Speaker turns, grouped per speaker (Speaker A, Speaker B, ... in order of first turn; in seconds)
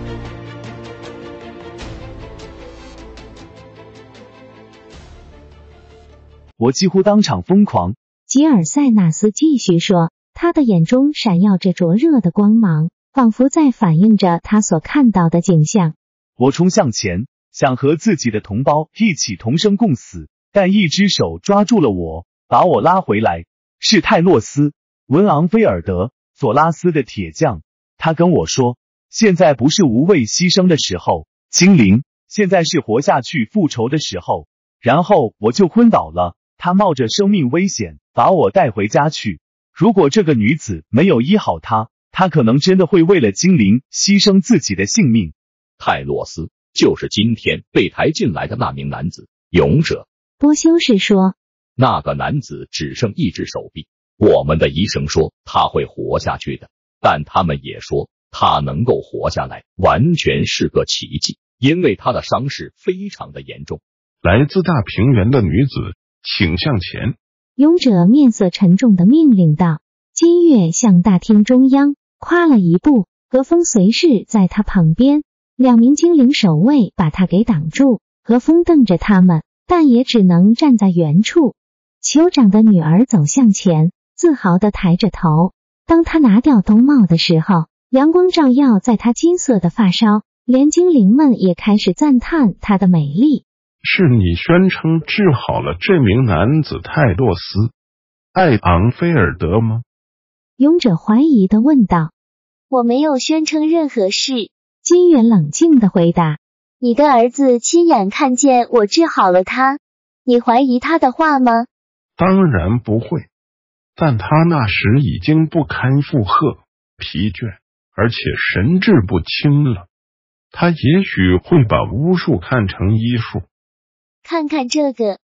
Speaker A: 6.6-8.0, 16.4-45.3
Speaker B: 8.3-16.0, 50.4-51.4, 67.6-93.5, 100.6-102.1, 104.8-106.4
Speaker C: 45.8-50.1, 51.8-63.8
Speaker D: 64.2-67.2, 93.8-97.7, 98.3-99.8, 112.2-113.3, 114.0-119.9, 120.5-123.5
Speaker E: 102.7-104.5, 106.8-111.7, 124.2-125.2